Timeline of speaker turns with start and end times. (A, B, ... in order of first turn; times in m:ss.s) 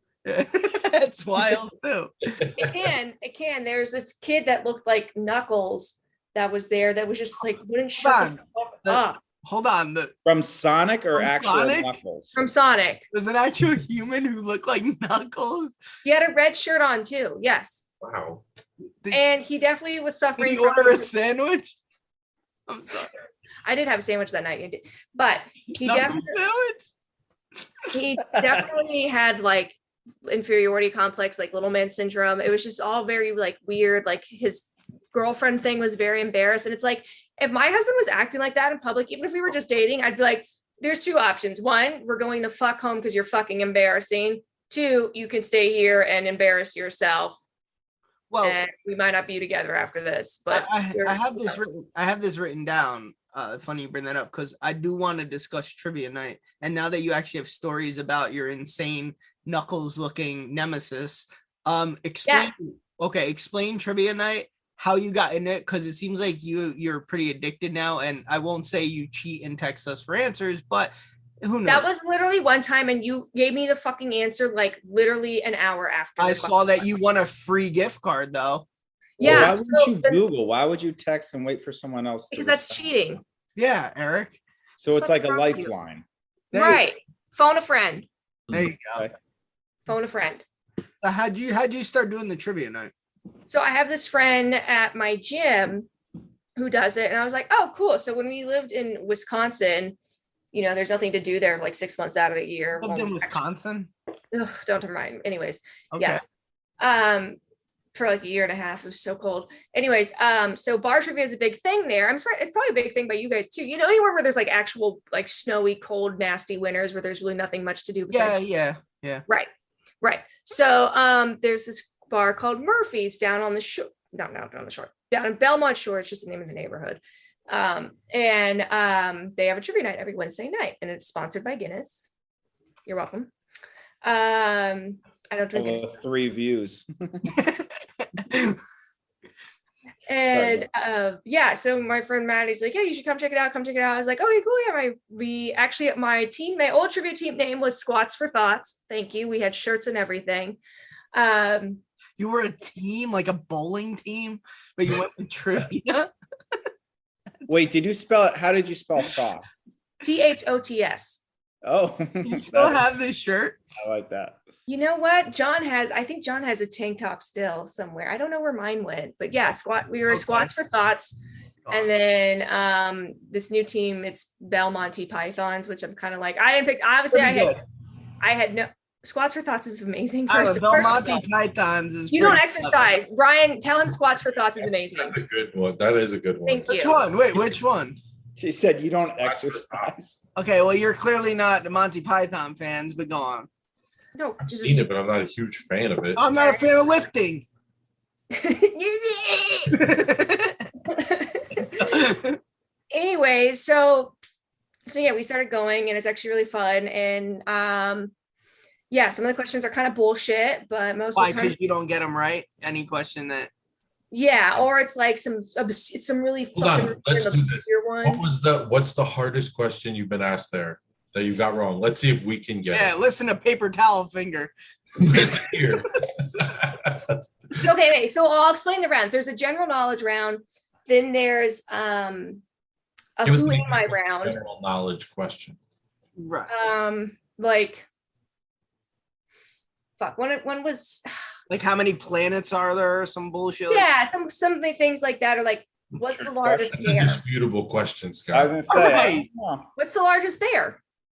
0:00.2-0:02.2 A
0:02.4-0:02.7 B
0:02.6-0:09.2 C
0:08.0-0:10.1 A
0:10.3-0:12.4 D
0:11.2-0:12.0 A
0:12.4-0:13.0 C
0:13.1-0:15.8 A
0:16.0-0:17.8 C
0:18.0-0:18.4 B
0:19.1-0:21.1 C
0:20.4-0:21.8 A
0:22.7-0:23.1 A
0:23.6-0:26.4 C
0:25.8-0:26.9 A
0:27.9-0:47.4 C
0:48.3-0:48.6 A
0:48.4-0:51.6 C
0:50.5-1:11.9 A
1:02.3-1:02.5 C
1:11.6-1:16.9 C
1:16.2-1:18.7 A
1:19.2-1:20.2 C
1:19.2-1:19.6 A
1:20.0-1:22.8 D
1:22.3-1:23.2 C
1:23.6-1:24.4 A
1:24.8-1:25.3 D
1:25.0-1:25.7 C
1:26.5-1:28.1 C
1:26.5-1:26.8 A
1:28.5-1:29.0 A
1:29.9-1:30.4 C
1:31.0-1:32.9 A
1:33.5-1:35.9 C
1:36.6-1:40.0 C
1:40.5-1:43.4 C
1:42.8-1:43.9 A
1:44.3-1:46.2 C
1:45.9-1:46.2 A
1:46.8-1:47.4 C
1:47.9-1:58.4 C
1:58.1-1:59.2 A
2:00.0-2:12.1 C
2:12.9-2:13.3 C
2:14.0-2:15.9 C
2:15.6-2:16.8 D
2:17.3-2:18.6 A
2:20.1-2:30.6 C
2:20.4-2:20.6 D
2:31.1-2:31.8 C
2:32.2-2:36.1 A
2:37.8-2:39.1 D
2:40.0-2:41.2 C
2:41.7-2:42.8 D
2:42.2-2:43.6 A
2:43.9-2:44.4 D
2:44.7-2:51.2 C
2:50.1-2:50.5 A
2:51.7-2:57.6 C
2:57.1-2:57.6 A
2:58.2-3:01.2 C
3:00.3-3:03.0 A
3:02.1-3:05.2 C
3:04.9-3:07.6 B
3:06.4-3:07.0 C
3:06.7-3:08.0 A
3:08.4-3:10.2 D
3:09.2-3:09.9 B
3:10.4-3:13.5 A
3:14.2-3:14.9 C
3:14.4-3:16.2 B
3:16.2-3:17.5 A
3:16.4-3:16.7 C
3:18.3-3:19.8 C
3:19.7-3:20.6 A
3:20.9-3:22.1 C
3:21.9-3:22.4 A
3:22.9-3:24.2 C
3:24.9-3:28.1 C
3:28.9-3:31.6 C
3:31.2-3:33.5 A
3:34.1-3:38.2 C
3:36.6-3:42.9 B
3:42.7-3:44.5 A
3:45.0-3:47.1 B
3:47.6-3:52.4 C
3:53.2-3:54.4 C
3:53.2-3:55.6 B
3:56.2-3:56.5 A
3:56.5-3:57.9 C
4:00.0-4:01.1 C
4:01.5-4:03.9 A
4:03.7-4:07.2 C
4:06.1-4:06.7 D
4:06.8-4:08.6 B
4:08.3-4:09.7 D
4:08.7-4:09.3 A
4:08.8-4:09.2 C
4:09.8-4:10.8 C